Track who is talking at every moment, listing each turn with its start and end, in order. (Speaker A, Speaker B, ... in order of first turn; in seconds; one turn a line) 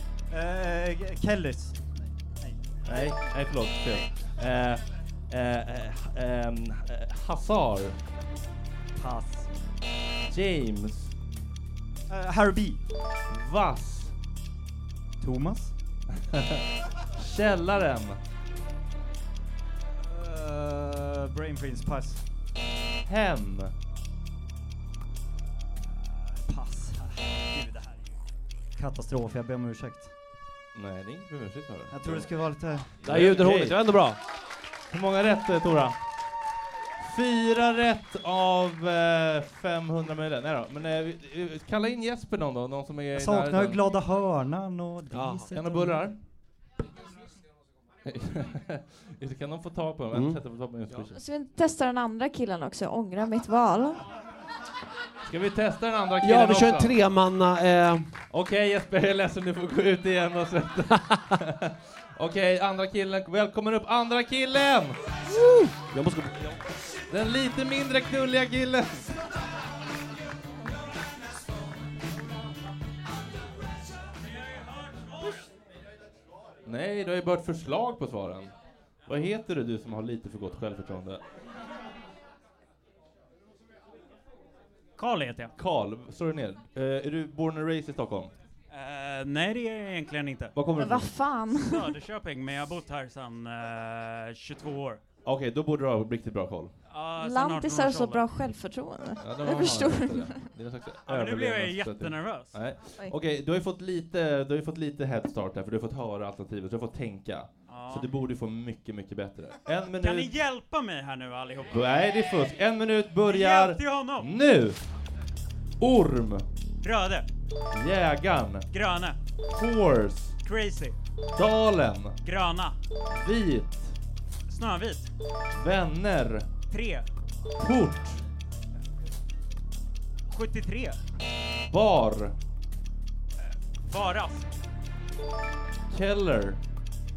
Speaker A: 0.3-2.6
Speaker B: 2.8-8.0
Speaker A: 8.9-9.5
Speaker B: 10.2-11.1
Speaker A: 12.1-12.8
Speaker B: 13.3-14.1
Speaker A: 15.2-15.7
Speaker B: 16.1-18.2
Speaker A: 19.9-22.2
Speaker B: 23.0-23.7
Speaker A: 26.0-28.1
Speaker A: 28.8-30.1
Speaker B: 30.7-32.3
Speaker A: 31.9-33.0
Speaker B: 33.0-33.8
Speaker C: 33.0-34.2
Speaker B: 34.9-36.0
Speaker B: 37.0-43.8
Speaker A: 43.1-46.1
Speaker C: 45.1-45.5
Speaker B: 45.5-46.2
Speaker B: 48.0-51.2
Speaker C: 50.1-50.4
Speaker D: 51.1-54.1
Speaker B: 55.2-57.0
Speaker C: 56.2-58.1
Speaker B: 58.3-65.0
Speaker C: 65.2-66.6
Speaker B: 67.1-69.2
Speaker E: 74.3-75.4
Speaker B: 76.6-78.5
Speaker B: 79.0-81.2
Speaker E: 85.0-85.5
Speaker B: 85.6-88.3
Speaker E: 88.7-90.6
Speaker B: 90.5-91.1
Speaker D: 90.7-91.9
Speaker E: 91.6-95.0
Speaker B: 95.2-96.7
Speaker E: 96.9-98.3
Speaker D: 97.2-100.5
Speaker B: 99.2-110.3
Speaker E: 101.1-102.6
Speaker E: 107.7-108.1
Speaker E: 109.9-111.8
Speaker B: 111.7-114.8
Speaker E: 113.2-114.3
Speaker B: 115.8-116.5
Speaker E: 116.8-117.3
Speaker B: 117.7-118.7
Speaker E: 118.7-119.2
Speaker B: 119.5-120.4
Speaker E: 120.4-121.0
Speaker B: 121.3-122.2
Speaker E: 122.2-122.8
Speaker B: 123.1-124.0
Speaker E: 124.5-125.1
Speaker B: 125.5-126.5
Speaker E: 126.7-127.0
Speaker B: 127.6-128.2
Speaker E: 130.3-131.0
Speaker B: 131.7-132.3
Speaker E: 133.8-134.5
Speaker B: 135.9-136.6